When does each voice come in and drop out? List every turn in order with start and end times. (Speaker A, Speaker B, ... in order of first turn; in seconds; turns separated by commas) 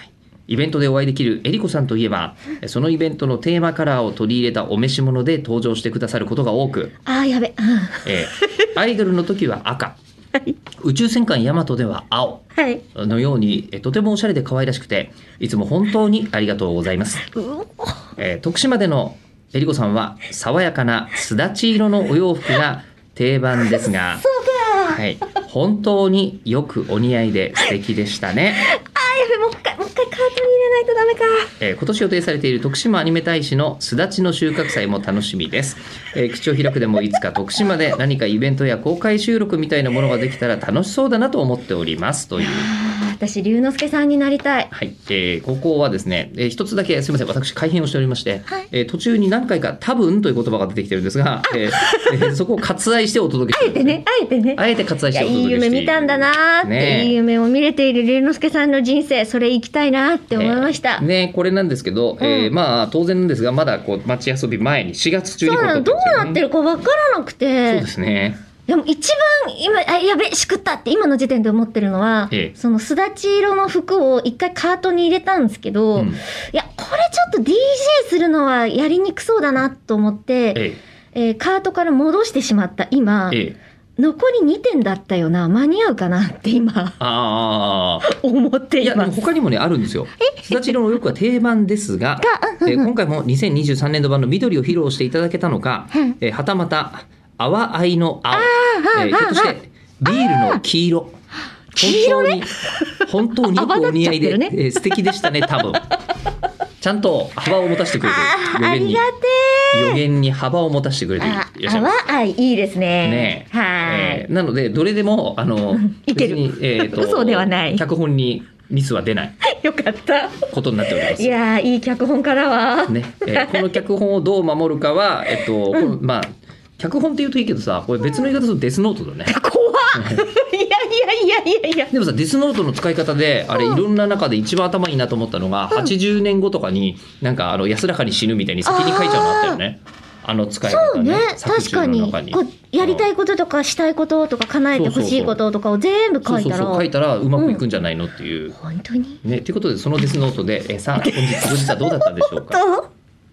Speaker A: 0.5-6.9, Speaker B: 7.0-8.2, Speaker A: 8.0-10.0, Speaker A: 10.8-17.3, Speaker B: 12.6-12.8, Speaker B: 17.4-17.9, Speaker A: 18.2-24.2, Speaker B: 23.8-25.0, Speaker A: 24.9-28.7, Speaker B: 28.6-31.5, Speaker A: 31.6-42.7, Speaker B: 42.4-44.7, Speaker A: 44.7-54.0, Speaker B: 51.6-52.3, Speaker B: 53.5-61.0, Speaker A: 54.5-57.2, Speaker A: 60.3-66.4, Speaker B: 62.2-62.5, Speaker B: 65.4-67.9, Speaker A: 67.7-68.4, Speaker B: 68.7-83.4, Speaker A: 75.9-76.2, Speaker A: 80.5-80.8, Speaker A: 83.3-83.5, Speaker B: 84.0-87.0, Speaker A: 87.0-88.1, Speaker B: 88.0-89.1, Speaker A: 88.8-101.1, Speaker B: 90.2-90.7, Speaker B: 92.2-92.9, Speaker B: 98.3-99.5, Speaker B: 100.1-100.6, Speaker B: 101.7-104.6, Speaker A: 101.8-105.9, Speaker A: 106.8-109.0, Speaker B: 108.0-110.0, Speaker A: 109.7-111.9, Speaker B: 111.2-114.2, Speaker A: 113.0-119.3, Speaker B: 115.7-117.8, Speaker B: 119.4-123.8, Speaker A: 120.5-121.4, Speaker A: 122.9-129.3, Speaker B: 129.3-131.9, Speaker A: 129.9-130.2, Speaker A: 131.9-143.1, Speaker B: 133.5-133.8, Speaker B: 138.6-139.6, Speaker B: 140.6-146.8, Speaker A: 144.7-145.4, Speaker A: 146.2-148.6, Speaker B: 147.4-147.6, Speaker B: 148.6-149.2, Speaker A: 149.2-152.6, Speaker B: 150.9-152.9